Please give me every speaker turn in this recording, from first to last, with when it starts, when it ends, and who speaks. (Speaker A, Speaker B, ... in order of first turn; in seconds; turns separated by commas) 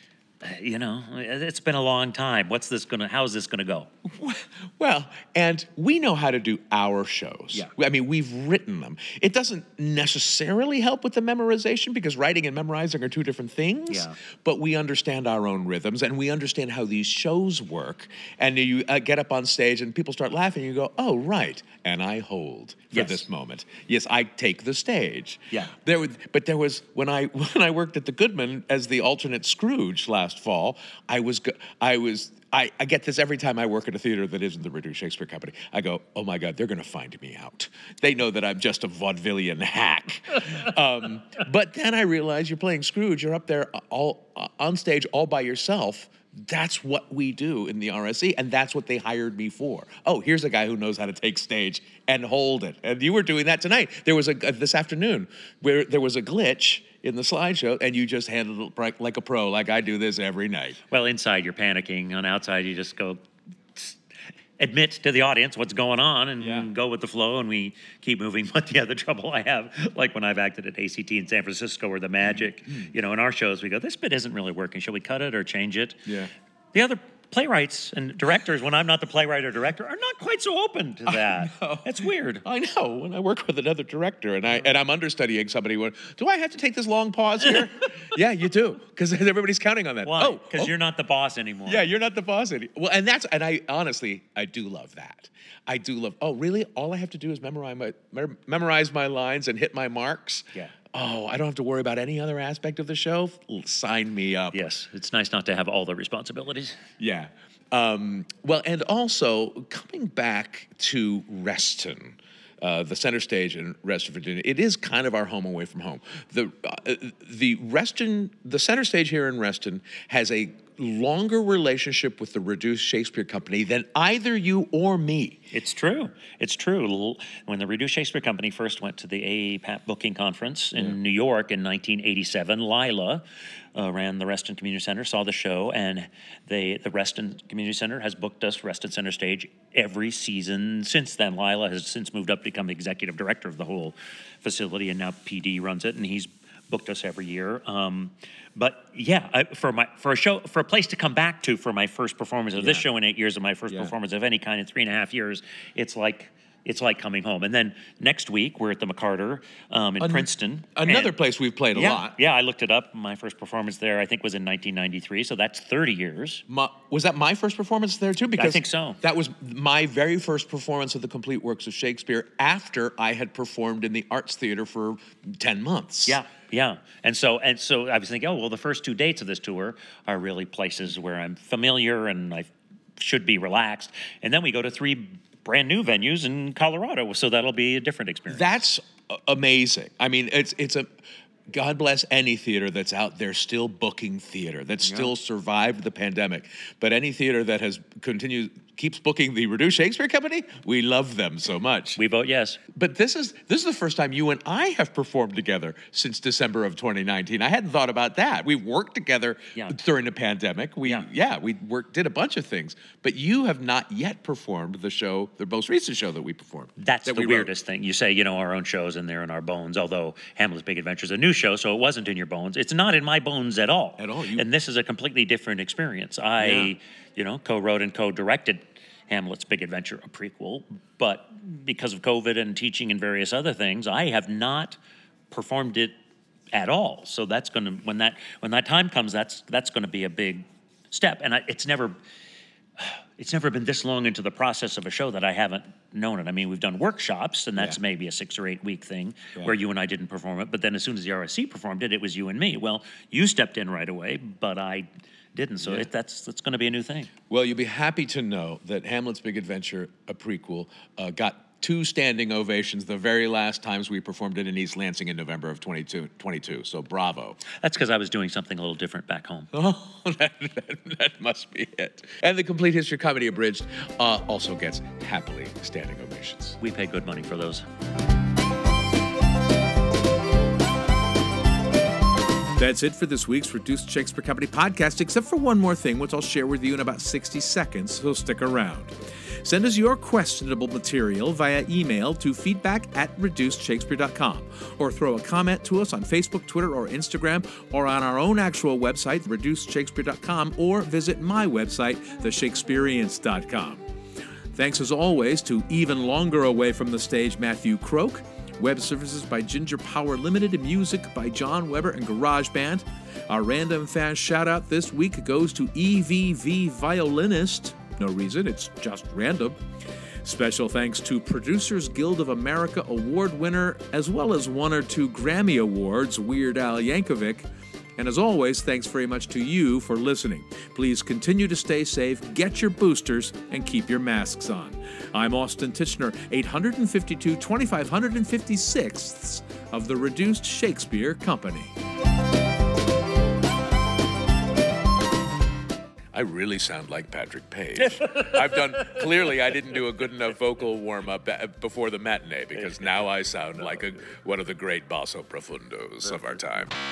Speaker A: 0.4-3.9, Speaker B: 4.0-60.8, Speaker A: 13.9-14.2, Speaker A: 22.9-23.2, Speaker A: 60.9-63.2, Speaker A: 64.6-76.1, Speaker B: 66.4-66.7, Speaker B: 76.1-76.3, Speaker A: 76.7-82.4, Speaker B: 81.1-90.7, Speaker A: 90.0-91.9, Speaker B: 91.7-104.7, Speaker A: 104.5-106.8, Speaker B: 107.0-125.5, Speaker A: 125.5-133.2, Speaker A: 133.8-161.2, Speaker B: 152.6-152.8, Speaker B: 153.7-153.9, Speaker B: 160.0-162.2, Speaker A: 161.7-166.4, Speaker B: 166.5-176.2, Speaker A: 168.4-169.0, Speaker A: 176.1-188.6, Speaker B: 188.3-190.9, Speaker B: 191.5-202.0, Speaker A: 202.0-202.6, Speaker B: 202.7-217.5, Speaker A: 216.8-234.8, Speaker B: 224.0-224.5, Speaker B: 226.4-226.7, Speaker A: 235.3-235.9, Speaker A: 236.5-241.9, Speaker A: 242.8-257.1, Speaker B: 255.6-255.9, Speaker B: 257.3-267.4, Speaker A: 267.6-269.5, Speaker B: 269.5-276.6, Speaker A: 276.6-277.6, Speaker B: 282.6-303.8, Speaker B: 304.6-319.6, Speaker B: 320.2-341.7, Speaker B: 346.1-356.7, Speaker A: 347.9-349.1, Speaker A: 352.6-353.6, Speaker A: 356.0-356.5